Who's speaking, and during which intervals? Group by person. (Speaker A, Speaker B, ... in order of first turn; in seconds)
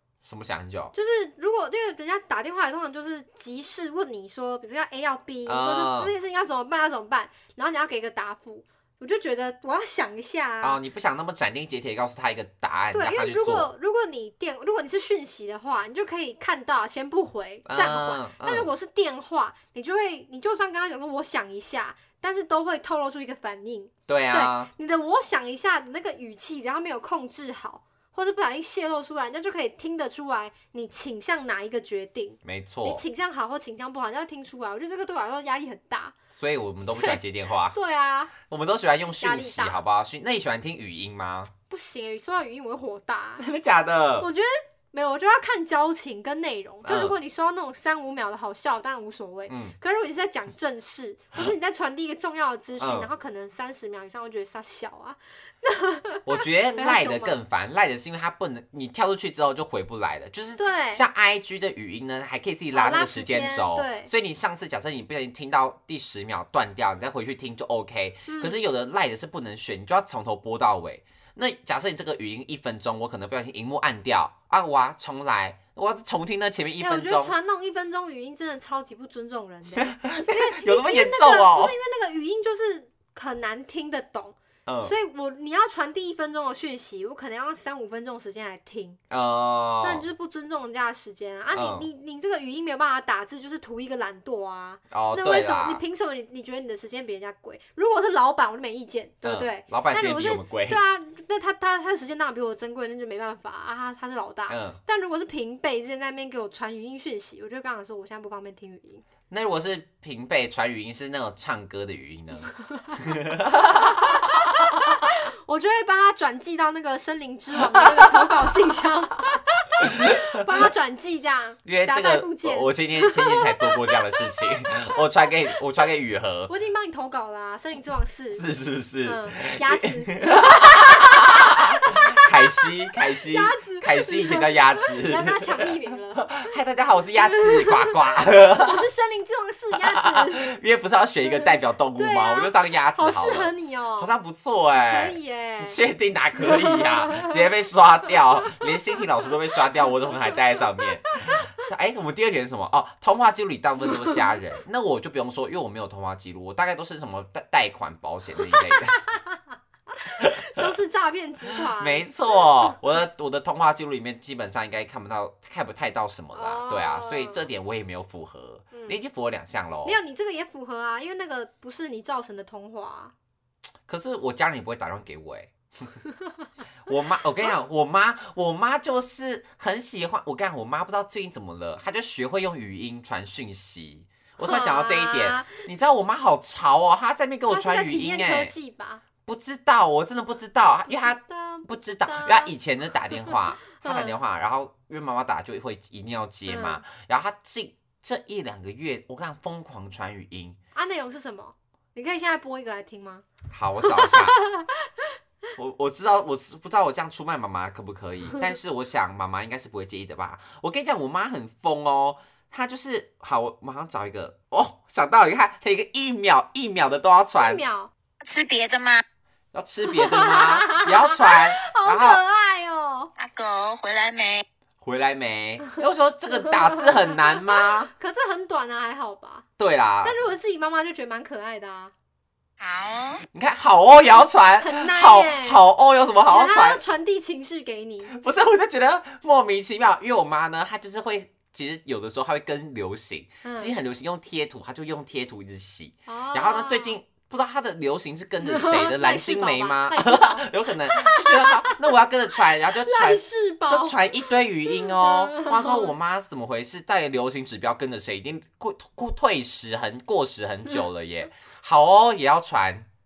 Speaker A: 0.2-0.9, 5.5-6.1, 10.6-13.7, 17.7-18.7, 24.1-24.7, 32.5-33.0, 36.3-37.8, 38.4-41.5, 43.4-44.3, 46.8-47.1, 49.5-49.8, 52.8-53.1, 56.3-77.3, 79.8-81.7, 84.7-84.9, 89.1-90.1, 91.5-91.9, 94.9-95.8, 99.2-100.8, 104.5-104.8, 109.3-115.0, 117.8-118.1, 119.8-120.5, 121.7-126.5, 128.3-138.8, 139.8-159.0, 160.2-160.7, 161.8-170.0, 173.9-175.9, 176.8-188.5, 189.2-200.6, 203.5-204.4, 205.6-217.6, 219.5-222.2, 224.8-227.9, 229.6-230.3, 233.3-236.8, 238.1-262.9
Speaker B: 0.9-10.8, 12.9-36.1, 36.9-38.4, 39.2-39.8, 41.7-43.5, 44.2-57.4, 60.6-61.0, 62.7-64.1, 68.3-68.6, 76.8-89.0, 89.8-109.0, 113.7-114.3, 115.0-123.8, 126.5-128.4, 129.0-132.7, 133.3-136.3, 137.2-137.9, 138.6-140.6, 142.0-144.1, 144.8-145.8, 146.4-147.4, 158.4-159.4, 159.9-162.1, 166.3-167.5, 168.7-169.0, 169.8-173.1, 184.4-185.6, 187.5-189.0, 190.9-192.5, 193.1-194.2, 196.5-196.8, 200.7-203.3, 203.8-205.1, 217.4-217.9, 219.9-223.1, 226.3-229.5, 230.0-231.9, 234.6-235.6, 236.3-238.1, 243.4-243.7, 246.1-247.0, 248.4-251.9, 252.7-254.2, 254.7-255.9
Speaker C: 218.2-219.0, 223.2-224.4, 232.6-233.2